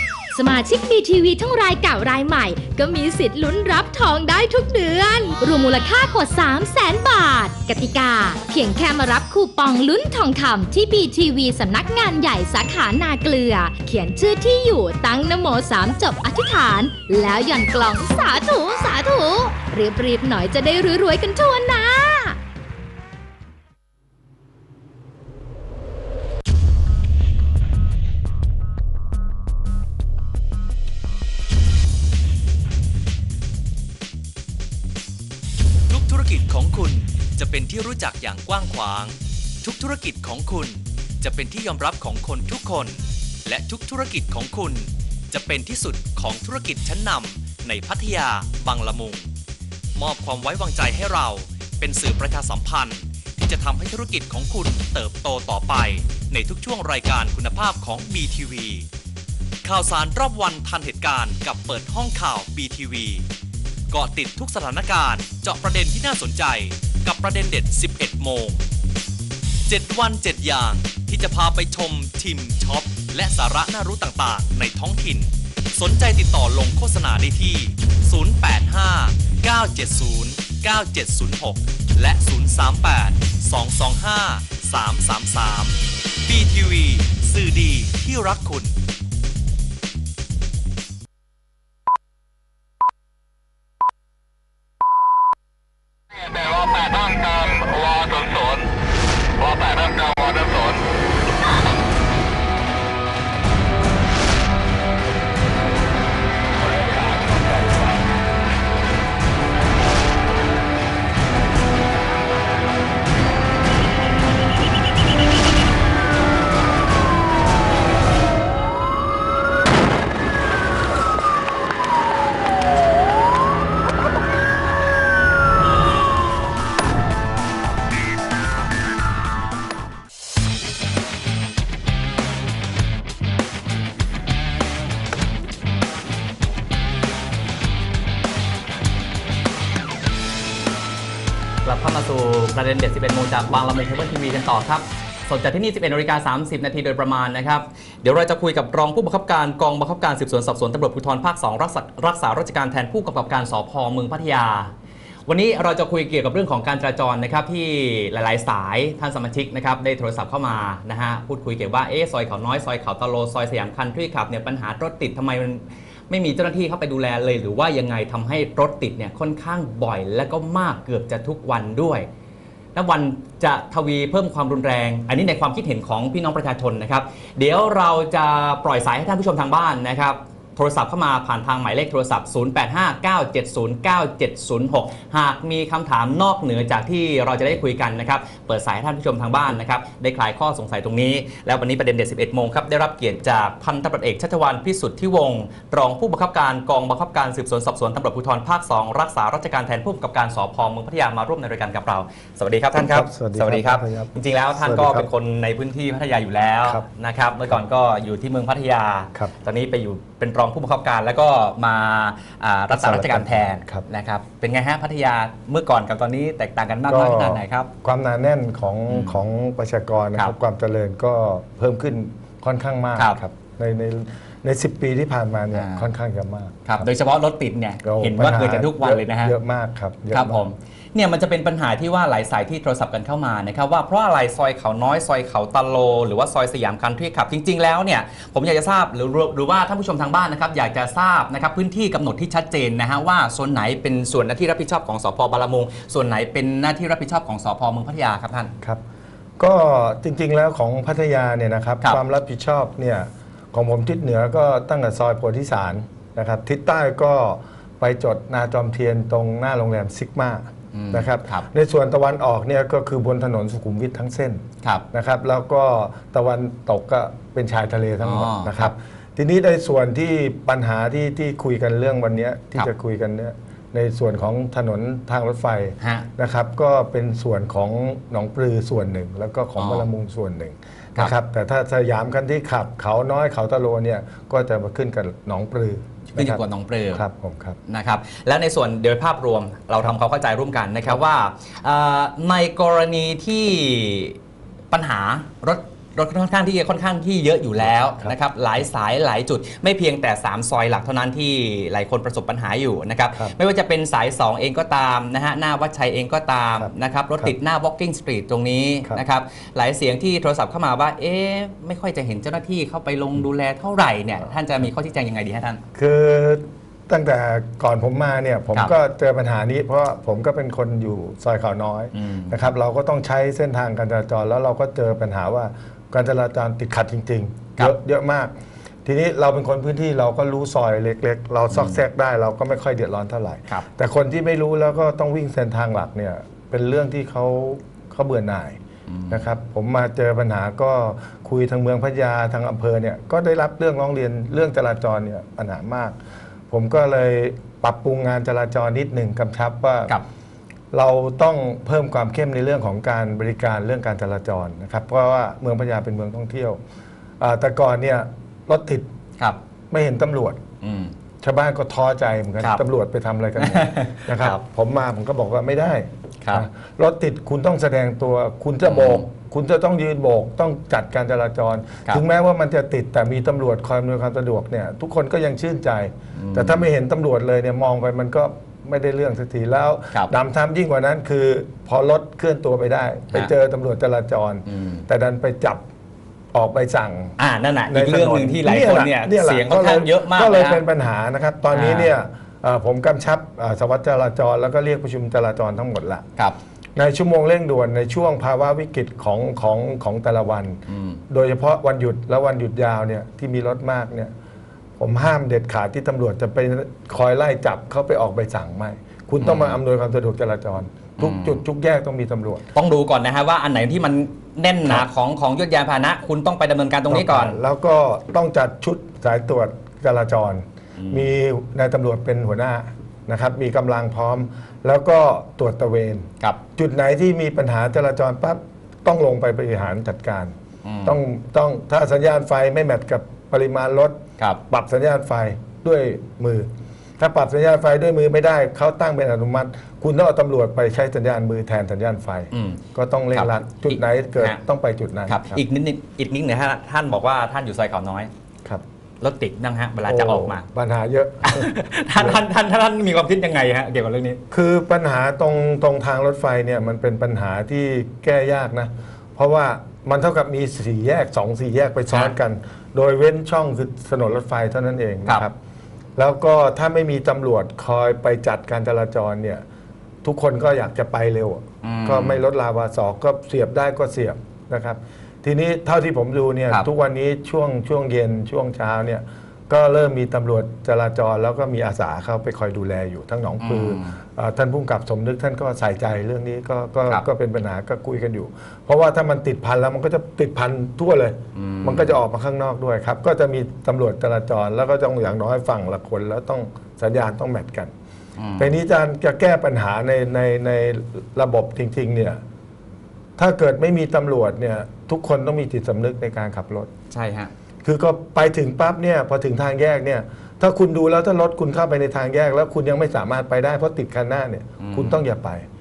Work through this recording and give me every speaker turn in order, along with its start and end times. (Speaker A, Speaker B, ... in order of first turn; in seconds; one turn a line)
Speaker A: 0.3-22.4
Speaker B: 35.9-49.3
Speaker B: 49.9-58.9
Speaker B: 59.6-63.3
Speaker B: 63.9-68.6
Speaker B: 69.7-88.7
Speaker C: 141.6-154.7
Speaker C: 155.3-172.1
Speaker C: 172.7-217.7
Speaker D: 202.7-205.1
Speaker D: 212.7-213.8
Speaker D: 216.9-226.9
Speaker C: 218.9-219.2
Speaker C: 225.5-225.8
Speaker C: 226.6-229.3
Speaker D: 227.8-230.4
Speaker C: 230.1-248.5
Speaker D: 249.4-286.4
Speaker C: 260.7-261.4
Speaker C: 268.0-268.7
Speaker C: 275.8-276.1
Speaker C: 279.6-279.8
Speaker C: 286.1-287.0
Speaker D: 286.9-287.6
Speaker C: 287.6-294.2
Speaker C: 294.7-315.6
Speaker D: 315.7-328.3
Speaker C: 321.9-322.3
Speaker D: 328.8-346.0
Speaker C: 338.9-339.2
Speaker D: 346.5-349.9
Speaker D: 350.7-356.6
Speaker D: 357.2-358.9
Speaker D: 359.7-360.4
Speaker C: 360.6-360.9
Speaker D: 361.2-385.6
Speaker C: 363.4-364.4
Speaker C: 368.7-369.0
Speaker C: 376.1-376.6
Speaker C: 384.5-384.8
Speaker D: 386.3-387.2
Speaker C: 387.2-390.6
Speaker D: 387.7-396.0
Speaker C: 391.5-391.9
Speaker D: 396.8-404.1
Speaker C: 400.7-401.0
Speaker D: 404.8-412.4
Speaker C: 409.2-409.6
Speaker C: 411.0-411.4
Speaker C: 412.5-417.4
Speaker D: 416.9-436.5
Speaker C: 420.8-421.1
Speaker C: 430.6-431.0
Speaker D: 437.0-445.4
Speaker C: 442.3-442.6
Speaker C: 443.1-444.4
Speaker C: 445.1-448.1
Speaker C: 449.0-450.5
Speaker D: 449.9-452.2
Speaker C: 451.2-454.2
Speaker D: 454.3-465.3
Speaker D: 465.9-469.4
Speaker D: 470.0-497.7
Speaker C: 471.6-472.2
Speaker C: 483.4-483.9
Speaker C: 491.3-491.9
Speaker C: 498.2-498.5
Speaker D: 498.4-502.2
Speaker D: 503.2-506.7
Speaker C: 506.9-507.3
Speaker D: 507.6-515.4
Speaker C: 514.6-515.0